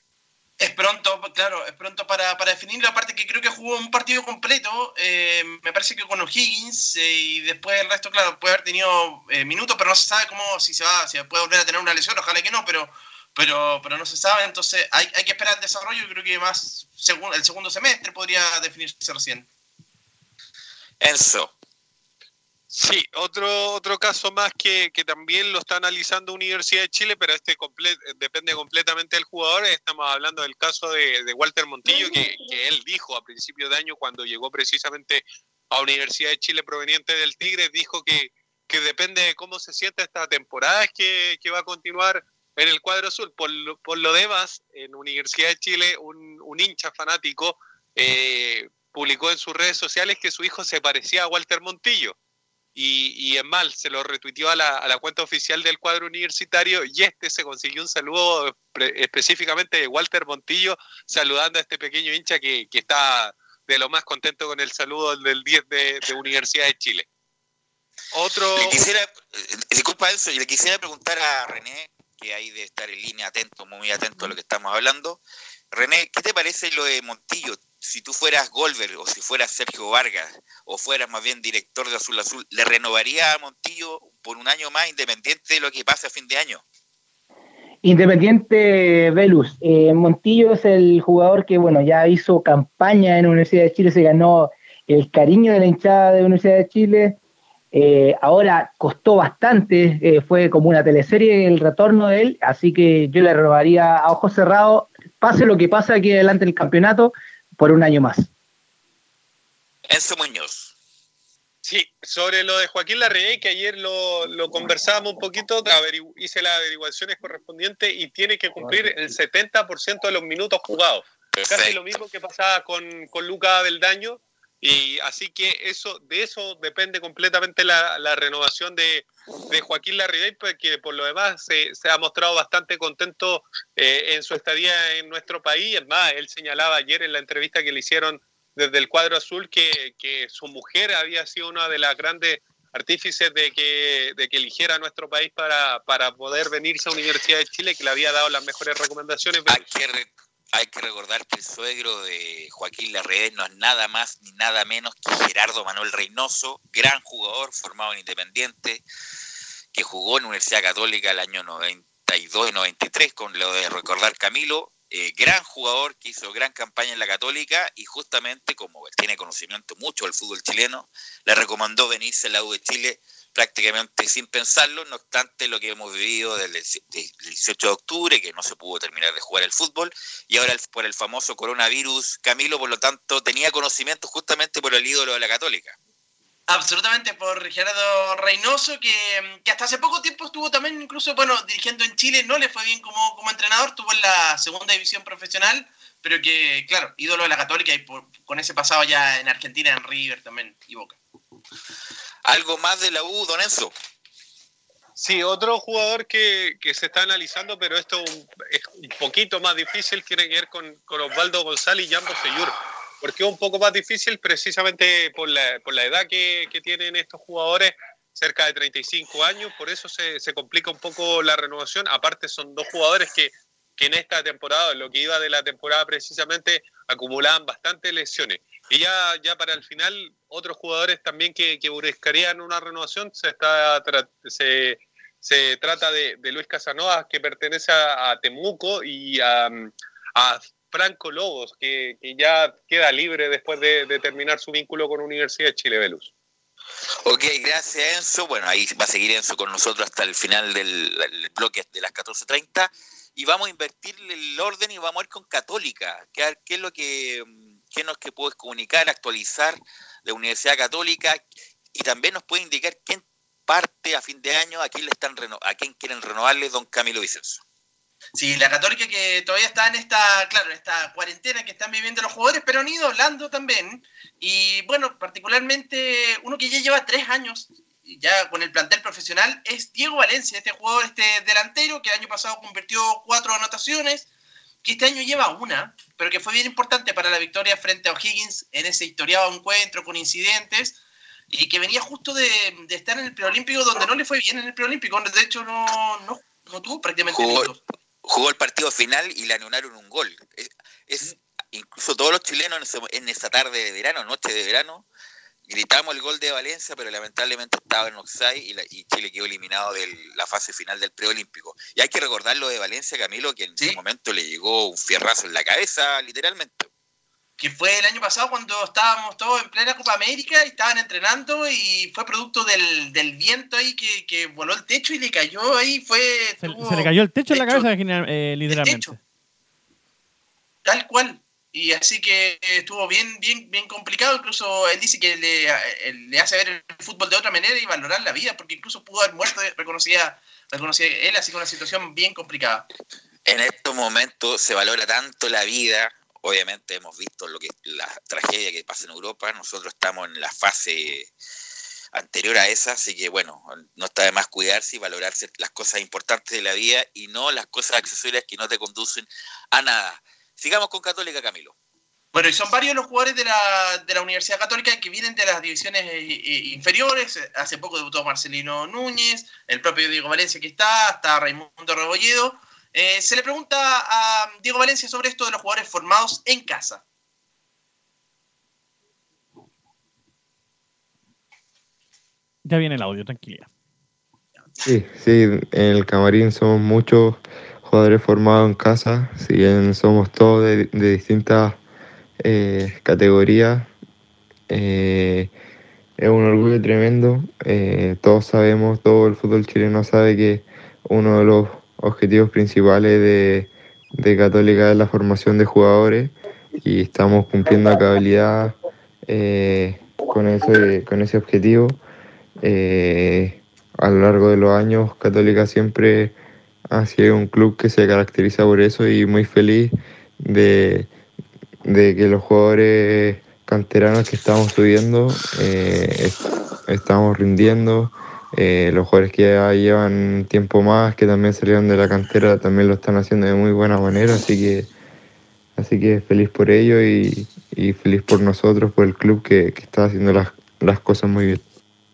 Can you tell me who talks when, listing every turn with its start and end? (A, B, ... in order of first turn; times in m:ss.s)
0:00.6-0:19.5 A
0:21.0-0:21.5 B
0:22.7-0:52.1 C
0:52.7-1:07.0 C
1:08.1-1:08.8 C
1:08.5-1:26.6 B
1:27.8-1:37.2 D
1:37.7-1:48.3 D
1:49.9-1:50.7 B
1:51.6-2:29.6 C
2:01.3-2:01.8 B
2:29.5-2:38.8 B
2:39.7-3:05.8 B
3:06.5-3:21.0 A
3:22.2-3:23.7 B
3:25.0-4:06.1 C
4:07.0-4:21.2 B
4:21.7-4:27.4 B
4:28.1-4:44.1 A
4:44.6-4:57.6 A
4:57.1-4:57.5 B
4:58.0-5:04.8 B
5:05.5-5:16.7 B
5:17.4-5:27.7 A
5:26.4-5:29.0 E
5:28.5-5:28.9 A
5:30.6-5:42.7 A
5:43.2-5:51.1 B
5:51.9-6:01.5 B
6:02.1-6:16.8 A
6:22.4-6:23.5 E
6:24.6-6:31.6 F
6:32.2-6:33.7 F
6:34.5-6:35.3 F
6:36.0-6:48.6 F
6:49.1-6:51.8 F
6:52.4-6:56.1 F
6:56.7-7:00.9 F
7:01.6-7:14.7 F
7:15.6-7:21.4 F